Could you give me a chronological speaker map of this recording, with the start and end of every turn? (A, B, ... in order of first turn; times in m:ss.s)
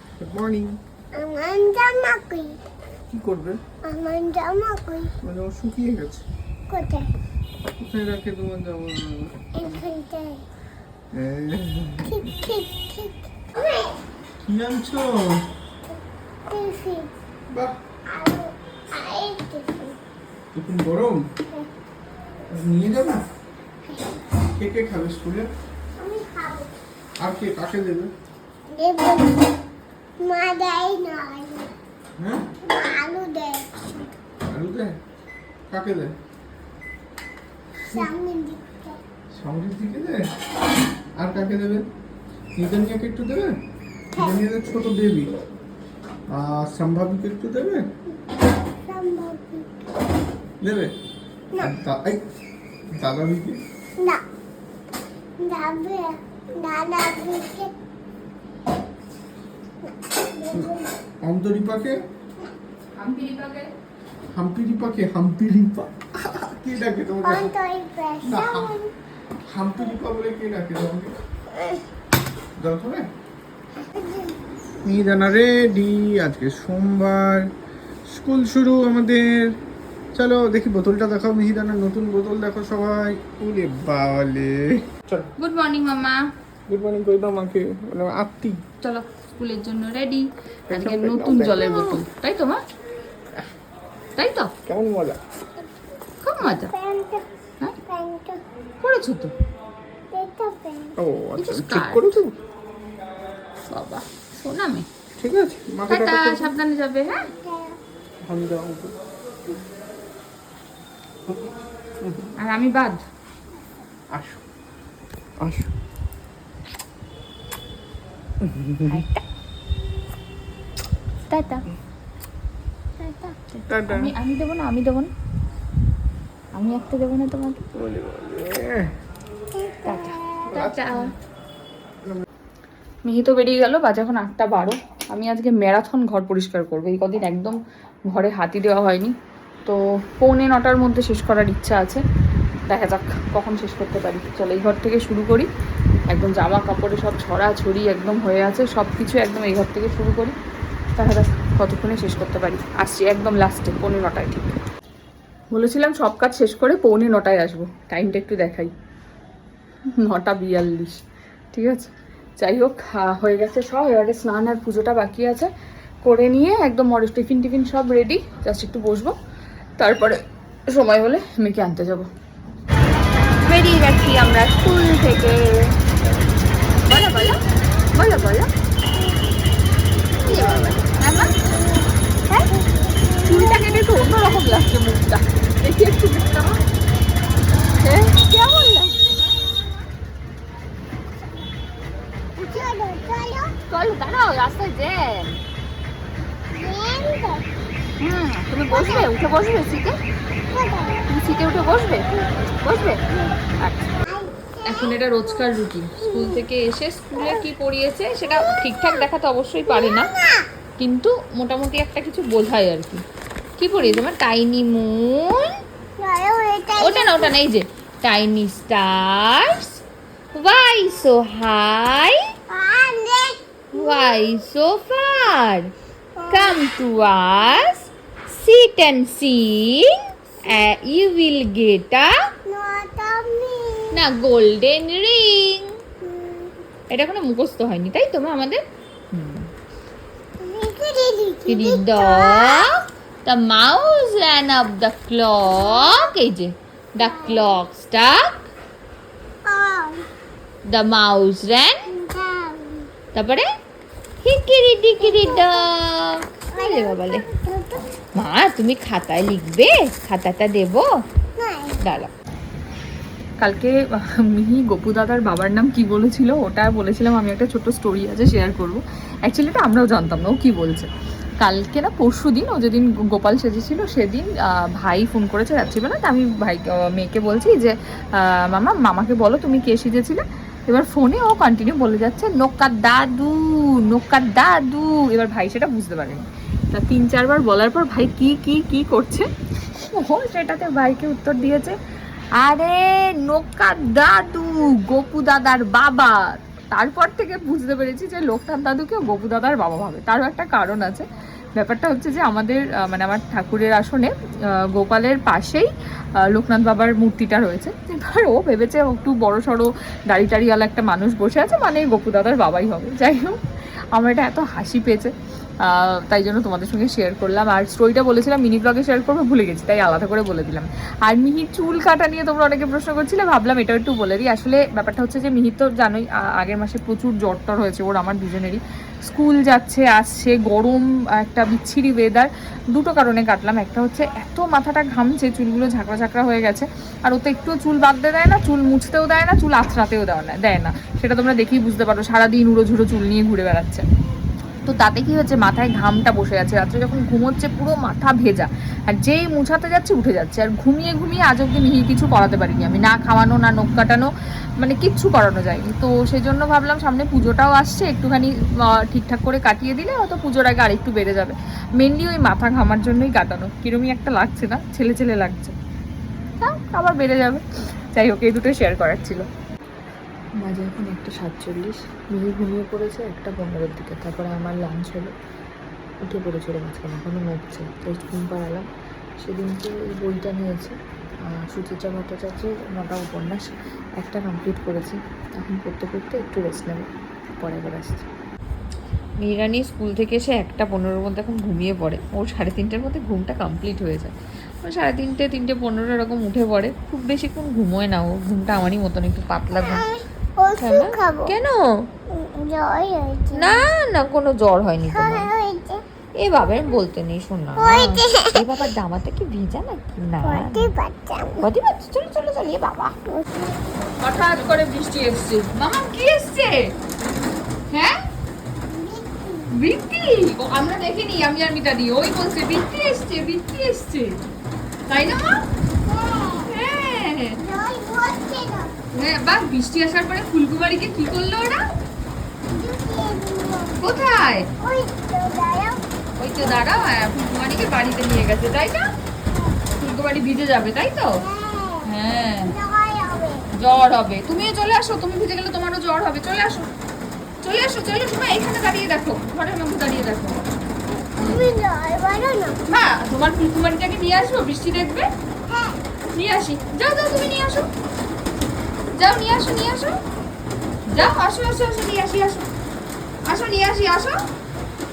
0:00.2-0:00.8 A
0:01.1-0:02.6 B
0:03.1-0:03.6 A
0:03.8-0:05.1 B
0:05.2-0:06.2 A
0:06.7-0:07.1 B
0:07.8-0:09.3 A
0:09.5-0:10.4 B
0:11.1-0:12.2 A
0:12.0-0:14.0 B
0:14.4-0:15.4 A
0:16.5-0:17.1 B
0:17.5-0:17.7 A
0:18.1-0:20.0 B
0:20.5-0:21.2 A
0:22.5-0:23.2 A
0:24.6-0:25.5 A
0:26.0-0:26.7 B
0:27.2-0:28.1 A
0:28.7-0:29.5 B
0:30.2-0:31.7 B
0:32.2-0:32.4 A
0:32.6-0:34.1 B
0:34.4-0:35.0 A
0:35.7-0:36.1 A
0:37.9-0:39.0 B
0:39.3-0:40.2 A
0:41.2-0:41.9 A
0:42.6-0:43.5 A
0:44.1-0:45.3 A
0:44.2-0:44.4 B
0:46.3-0:47.8 A
0:48.8-0:49.8 B
0:50.6-0:50.9 A
0:51.6-0:52.2 A
0:53.0-0:53.6 A
0:55.4-0:57.7 B
0:59.8-1:00.9 B
1:01.2-1:02.0 A
1:03.0-1:03.7 C
1:04.3-1:07.5 A
1:07.2-1:08.9 B
1:08.2-1:08.7 A
1:09.5-1:11.1 A
1:11.5-1:11.8 B
1:12.6-1:13.1 A
1:13.9-1:14.4 B
1:14.8-1:17.4 A
1:18.1-1:19.5 A
1:20.1-1:25.3 A
1:25.4-1:26.2 C
1:26.7-1:28.6 A
1:28.8-1:32.6 C
1:30.7-1:31.7 A
1:31.6-1:32.0 B
1:34.2-1:34.5 C
1:34.6-1:35.2 A
1:36.2-1:36.7 C
1:36.4-1:37.2 B
1:37.8-1:38.4 B
1:38.8-1:39.3 C
1:40.1-1:40.9 B
1:41.0-1:42.3 A
1:41.4-1:42.2 C
1:43.7-1:44.8 C
1:45.2-1:46.5 A
1:45.9-1:47.3 C
1:47.1-1:47.8 B
1:48.3-1:48.9 A
1:52.4-1:53.0 C
1:54.1-1:54.4 A
1:55.4-1:55.7 A
1:58.4-1:59.0 A
1:58.9-1:59.2 C
2:01.3-2:01.6 C
2:03.0-2:03.4 B
2:03.7-2:04.1 A
2:03.9-2:05.1 C
2:06.5-2:07.6 C
2:07.7-2:08.9 A
2:09.5-2:10.7 B
2:09.9-2:11.1 C
2:10.5-2:10.9 A
2:13.0-2:19.1 C
2:19.6-2:22.0 C
2:22.7-2:25.5 C
2:26.1-2:30.3 C
2:31.0-2:34.4 C
2:35.5-2:38.7 C
2:40.0-2:41.0 C
2:41.5-2:45.5 C
2:46.0-2:49.1 C
2:49.8-2:52.1 C
2:53.4-2:55.7 C
2:56.8-2:57.4 C
2:57.9-2:58.5 C
2:58.9-2:59.2 B
3:00.2-3:01.3 C
3:00.2-3:01.9 B
3:02.5-3:04.6 B
3:03.2-3:06.6 C
3:07.8-3:08.9 C
3:08.3-3:08.9 B
3:12.4-3:13.5 B
3:13.7-3:15.4 C
3:16.5-3:17.4 B
3:18.0-3:19.9 C
3:18.7-3:19.1 B
3:20.5-3:21.0 B
3:21.1-3:22.1 C
3:22.1-3:22.4 B
3:22.6-3:23.0 C
3:23.0-3:23.4 B
3:23.6-3:24.0 C
3:24.0-3:26.4 B
3:24.6-3:30.1 C
3:27.1-3:27.4 B
3:28.2-3:29.0 B
3:29.6-3:30.4 B
3:30.8-3:33.0 C
3:33.6-3:35.5 C
3:33.7-3:34.0 B
3:36.0-3:37.4 B
3:36.8-3:39.8 C
3:40.3-3:42.2 C
3:42.5-3:44.4 B
3:43.7-3:45.7 C
3:46.2-3:46.6 B
3:46.3-3:49.9 C
3:50.4-3:52.1 C
3:52.5-3:53.9 B
3:53.9-3:55.7 C
3:56.0-3:56.5 B
3:56.9-3:59.5 C
4:00.4-4:02.7 B
4:01.5-4:08.4 C
4:05.5-4:06.1 B
4:07.0-4:07.6 B
4:09.4-4:10.0 B
4:10.7-4:11.8 C
4:11.9-4:12.9 B
4:13.1-4:13.4 C
4:14.2-4:17.2 C
4:15.0-4:15.7 B
4:16.5-4:17.8 B
4:18.2-4:20.9 C
4:21.4-4:21.8 B
4:21.8-4:22.1 C
4:23.4-4:30.9 C
4:31.4-4:49.3 C
4:49.8-4:51.8 C
4:52.4-5:13.4 C
5:14.0-5:15.1 C
5:15.6-5:43.8 C
5:44.6-5:54.1 C
5:54.6-6:05.5 C
6:06.4-6:07.4 C
6:07.9-6:09.2 C
6:10.4-6:15.1 C
6:16.0-6:18.6 C
6:19.2-6:28.0 C
6:29.2-6:39.8 C
6:39.6-6:41.3 B
6:40.6-6:41.9 C
6:42.1-6:43.6 B
6:43.3-6:45.3 C
6:44.9-6:45.8 B
6:46.2-6:50.7 C
6:47.6-6:48.5 B
6:50.2-6:51.4 B
6:51.4-6:52.9 C
6:53.1-6:53.6 B
6:54.0-6:56.7 C
6:58.6-6:59.5 B
6:59.5-7:04.2 C
7:04.9-7:05.4 C
7:05.8-7:06.5 B
7:06.5-7:07.4 C
7:07.4-7:08.7 B
7:08.9-7:11.6 C
7:12.5-7:14.0 B
7:13.8-7:14.5 C
7:14.6-7:15.8 B
7:16.2-7:18.9 C
7:19.8-7:21.2 C
7:21.2-7:21.8 B
7:21.8-7:22.5 C
7:22.4-7:23.5 B
7:23.5-7:26.7 C
7:27.4-7:30.4 C
7:31.0-7:32.6 B
7:31.2-7:31.5 C
7:32.7-7:35.1 C
7:35.5-7:35.8 B
7:36.1-7:37.7 C
7:38.9-7:40.0 C
7:40.9-7:42.4 C
7:43.2-7:44.2 C